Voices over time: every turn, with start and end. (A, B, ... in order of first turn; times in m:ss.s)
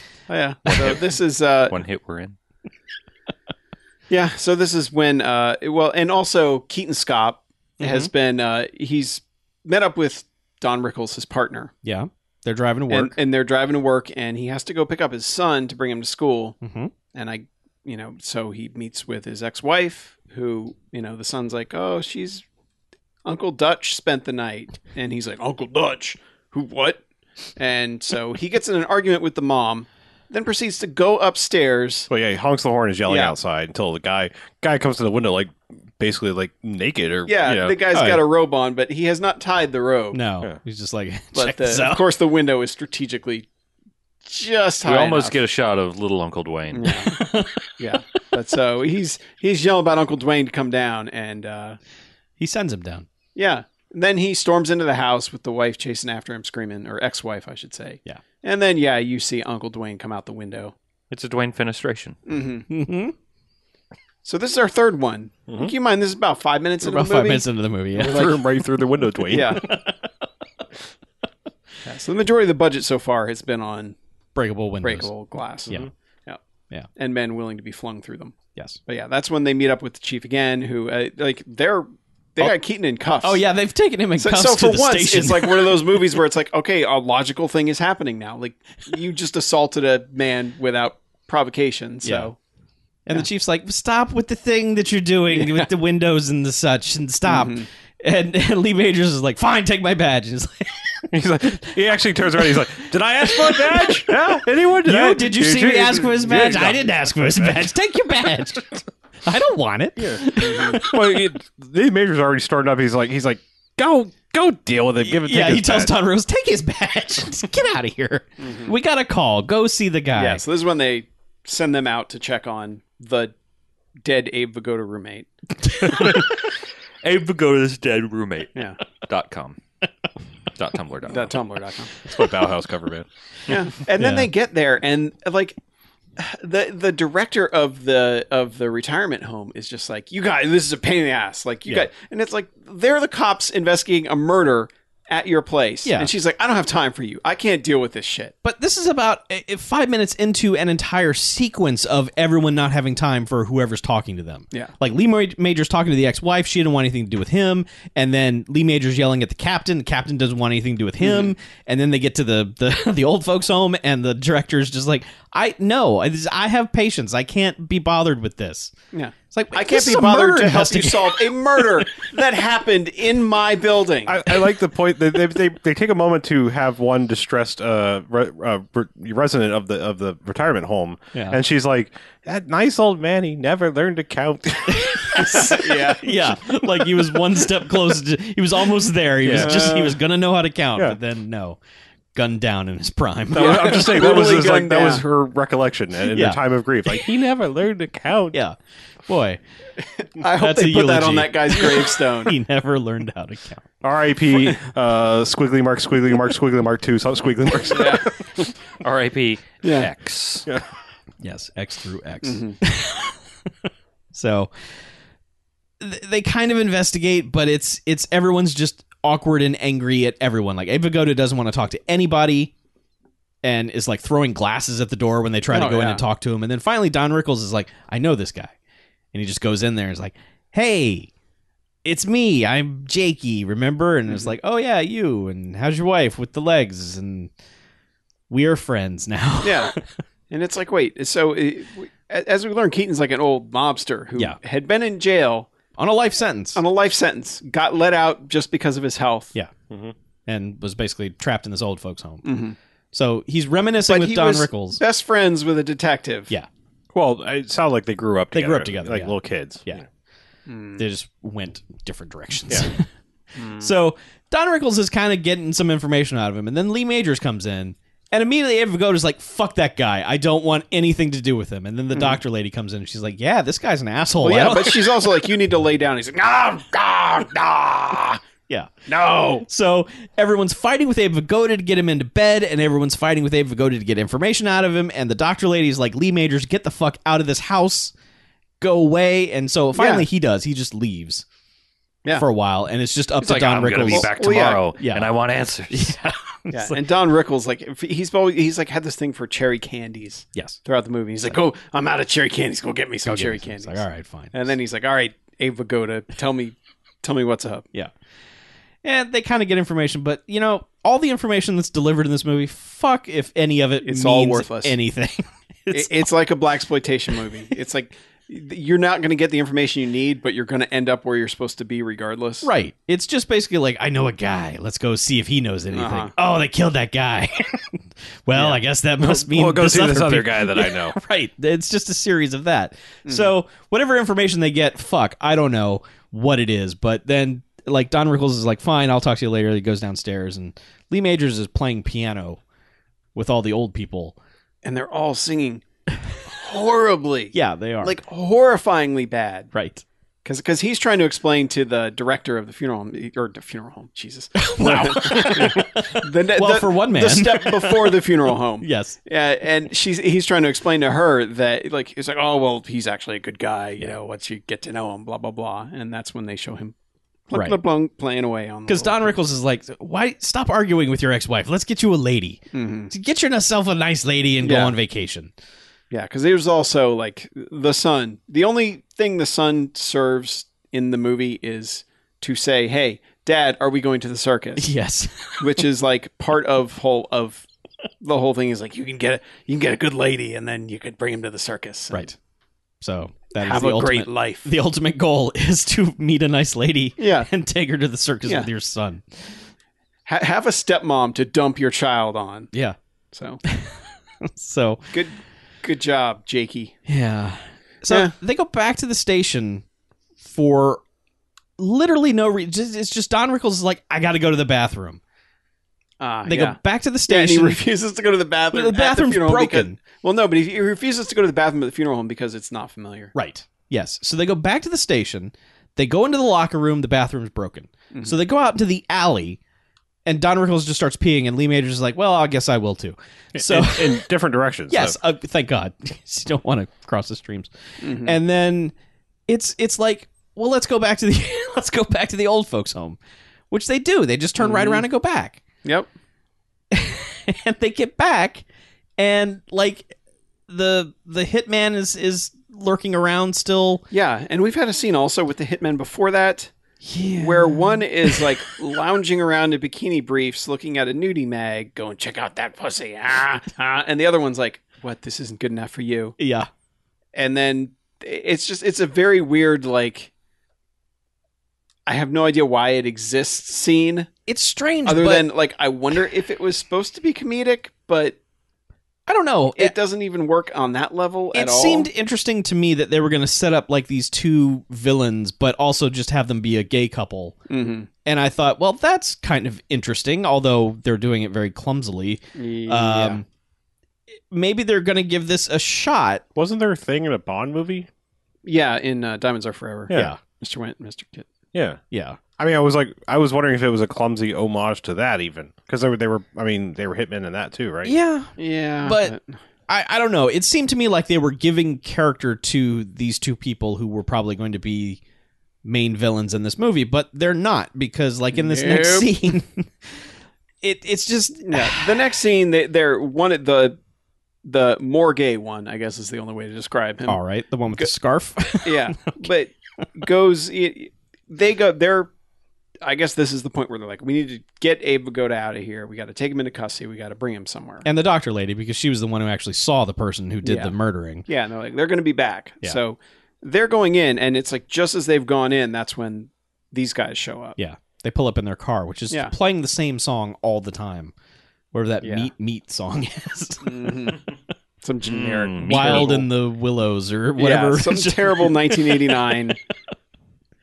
0:00.3-0:01.8 A
0:00.7-0:01.0 B
0:01.7-0:02.4 C
0:04.1-0:11.7 A
0:07.8-0:08.1 B
0:11.8-0:13.2 B
0:12.9-0:16.6 A
0:16.6-0:16.9 B
0:17.1-0:22.4 A
0:23.2-0:27.0 A
0:27.6-0:32.1 A
0:32.1-0:37.8 D
0:33.1-0:33.4 A
0:37.3-0:40.2 A
0:37.9-0:38.3 B
0:40.1-0:42.0 B
0:41.3-0:43.5 A
0:44.2-0:45.4 A
0:44.8-0:47.0 C
0:46.7-0:47.2 A
0:47.1-0:47.8 B
0:47.8-0:51.8 A
0:52.4-0:53.1 B
0:53.4-1:00.7 A
1:01.1-1:02.2 C
1:02.3-1:02.7 A
1:02.7-1:03.1 B
1:04.2-1:07.5 A
1:06.8-1:08.4 B
1:08.0-1:09.7 D
1:08.0-1:08.4 A
1:09.3-1:09.7 A
1:09.3-1:10.0 B
1:11.8-1:14.0 A
1:14.4-1:15.1 B
1:14.8-1:16.4 A
1:17.0-1:23.4 A
1:23.2-1:26.0 B
1:24.2-1:32.4 A
1:32.0-1:32.3 B
1:33.1-1:41.7 B
1:35.3-1:35.7 A
1:37.3-1:37.7 A
1:41.1-1:47.7 D
1:42.4-1:48.7 B
1:49.2-1:51.2 B
1:50.0-1:56.0 D
1:50.4-1:50.8 A
1:55.0-2:00.4 B
1:58.4-1:58.8 A
2:00.2-2:03.4 A
2:04.0-2:05.3 A
2:05.7-2:06.2 B
2:05.9-2:06.4 C
2:07.0-2:09.6 C
2:08.6-2:08.8 A
2:10.5-2:11.4 C
2:11.1-2:12.0 A
2:12.0-2:13.1 D
2:13.5-2:15.6 A
2:14.0-2:14.3 B
2:16.2-2:28.4 A
2:25.8-2:26.1 B
2:28.4-2:48.7 B
2:41.0-2:41.3 A
2:48.9-2:54.2 A
2:49.3-2:52.1 B
2:54.1-3:05.6 D
3:04.7-3:11.6 B
3:05.3-3:06.2 A
3:09.2-3:09.7 D
3:09.3-3:10.0 A
3:12.2-3:14.0 B
3:13.3-3:18.4 D
3:13.4-3:15.0 A
3:16.1-3:16.4 B
3:19.1-3:19.4 B
3:19.8-3:22.4 A
3:20.4-3:23.6 B
3:23.8-3:28.4 D
3:27.7-3:28.1 A
3:28.8-3:30.5 C
3:29.6-3:29.9 A
3:31.2-3:33.2 B
3:32.2-3:32.6 A
3:34.1-3:34.5 B
3:35.8-3:42.5 B
3:43.4-3:48.5 B
3:45.5-3:46.0 A
3:49.1-3:51.1 B
3:51.8-3:57.3 B
3:54.1-3:54.3 A
3:58.3-3:59.8 B
3:59.4-3:59.7 A
4:00.3-4:05.5 A
4:05.8-4:06.6 B
4:06.6-4:09.3 A
4:10.3-4:12.3 B
4:12.2-4:12.6 A
4:12.9-4:14.8 B
4:13.9-4:16.3 A
4:16.9-4:19.7 D
4:18.3-4:19.8 B
4:20.5-4:20.8 A
4:20.8-4:22.9 B
4:23.4-4:23.7 A
4:23.5-4:34.8 B
4:31.9-4:32.2 A
4:34.2-4:38.2 A
4:38.5-4:38.7 B
4:38.9-4:39.5 A
4:39.4-4:47.9 B
4:48.6-4:51.2 B
4:49.8-4:50.1 A
4:52.2-4:55.1 B
4:53.2-4:56.0 C
4:53.9-4:54.6 A
4:55.7-4:56.8 B
4:56.5-5:07.7 A
5:03.0-5:04.3 B
5:08.8-5:16.1 B
5:13.8-5:14.8 A
5:15.7-5:22.5 A
5:22.4-5:42.4 B
5:25.7-5:26.1 A
5:28.3-5:28.6 A
5:29.0-5:31.0 D
5:33.1-5:33.3 A
5:43.2-5:44.2 B
5:44.6-5:45.6 A
5:46.3-5:49.5 A
5:47.3-5:48.0 B
5:49.5-5:49.8 B
5:50.2-6:06.8 A
5:54.4-5:58.1 B
5:58.6-5:59.0 B
6:07.3-6:09.1 A
6:07.3-6:07.6 B
6:08.7-6:15.3 B
6:12.5-6:12.9 A
6:14.4-6:14.8 A
6:15.9-6:24.7 A
6:24.6-6:25.6 B
6:25.4-6:27.5 A
6:28.0-6:32.1 A
6:32.8-6:39.3 B
6:33.4-6:34.5 A
6:37.0-6:37.3 A
6:40.1-6:42.5 A
6:43.1-6:43.4 A
6:43.4-6:44.9 B
6:44.9-6:46.8 A
6:46.9-6:49.6 B
6:47.9-6:48.1 A
6:50.2-6:50.8 B
6:51.6-6:55.0 B
6:56.0-7:03.1 A
6:56.2-6:57.6 B
6:58.5-6:59.8 B
7:03.1-7:09.4 B
7:10.1-7:14.1 B
7:13.4-7:15.0 D
7:14.7-7:18.7 B
7:17.8-7:18.2 A
7:19.3-7:23.0 B
7:23.5-7:25.4 B
7:24.4-7:24.8 A
7:26.7-7:28.4 B
7:29.0-7:29.9 B
7:30.5-7:33.8 B
7:33.9-7:36.5 A
7:36.8-7:38.3 B
7:37.2-7:46.2 A
7:46.2-7:46.5 B
7:47.1-7:50.1 A
7:51.9-7:54.1 A
7:54.3-7:55.3 B
7:54.8-7:58.2 A
7:59.1-7:59.8 B
7:59.6-8:01.9 A
8:01.3-8:07.4 B
8:07.5-8:07.9 A
8:08.0-8:13.2 B
8:12.4-8:13.2 A
8:14.3-8:16.2 B
8:16.4-8:17.9 D
8:18.4-8:21.3 A
8:19.9-8:20.1 D
8:19.9-8:20.2 B
8:21.5-8:21.8 D
8:21.9-8:22.2 B
8:22.4-8:27.9 D
8:27.8-8:29.2 B
8:28.4-8:29.2 A
8:29.7-8:35.0 B
8:35.6-8:40.0 B
8:38.3-8:39.1 A
8:40.6-8:41.9 B
8:41.4-8:43.8 A
8:44.4-8:47.2 A
8:47.1-8:49.3 B
8:48.6-8:52.1 A
8:52.8-8:57.9 A
8:57.8-9:01.2 B
9:00.4-9:00.7 A
9:01.3-9:07.6 A
9:07.6-9:11.1 B
9:11.7-9:14.2 B
9:12.0-9:12.3 A
9:13.6-9:14.2 A
9:14.8-9:16.3 A
9:15.0-9:16.1 C
9:15.6-9:19.6 B
9:17.4-9:19.6 A